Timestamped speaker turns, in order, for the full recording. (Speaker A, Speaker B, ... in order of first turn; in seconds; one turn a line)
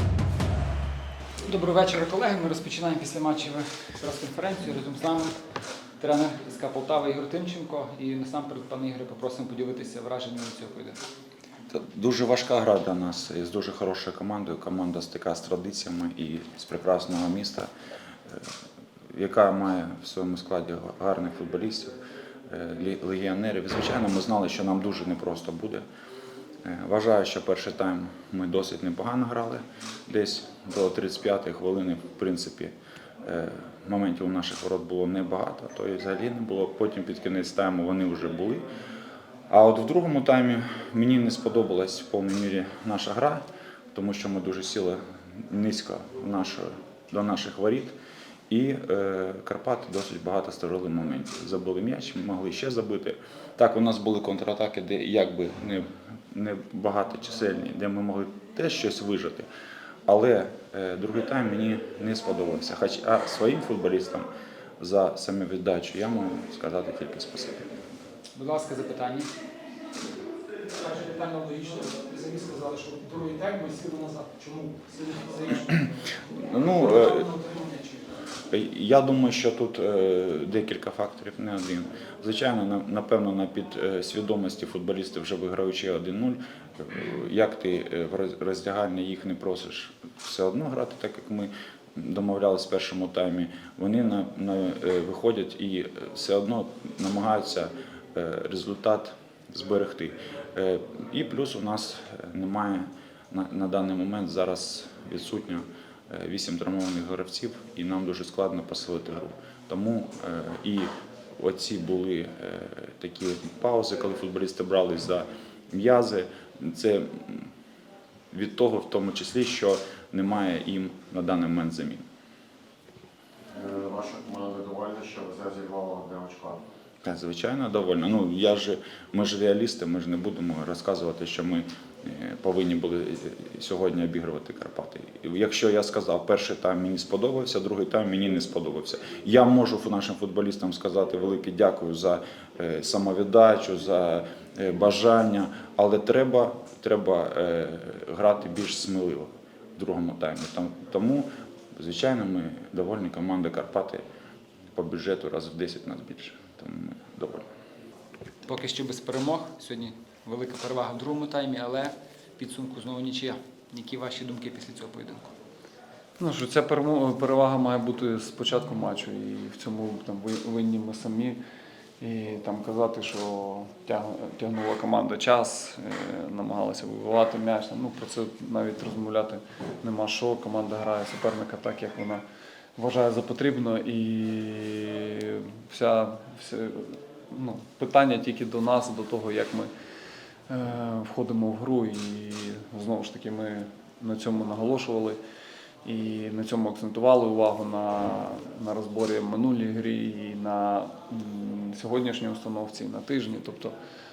Speaker A: 1.4-5.3
Speaker A: 6.0-11.0
Speaker B: 11.7-17.7
Speaker B: 19.1-21.9
Speaker B: 22.5-25.8
Speaker B: 26.6-38.6
Speaker B: 39.5-47.9
Speaker B: 48.5-59.5
Speaker B: 60.1-64.3
Speaker B: 64.8-67.7
Speaker A: 68.3-69.3
Speaker C: 70.8-75.6
Speaker B: 76.4-77.2
Speaker C: 76.7-78.1
Speaker B: 78.5-117.5
Speaker B: 118.3-122.0
Speaker D: 123.5-126.6
Speaker B: 127.0-154.0
Speaker B: 154.7-157.4
Speaker A: 158.4-165.3
Speaker E: 166.2-171.4
Speaker E: 172.0-182.2
Speaker E: 182.8-189.7
Speaker E: 190.5-195.2
Speaker E: 195.8-203.7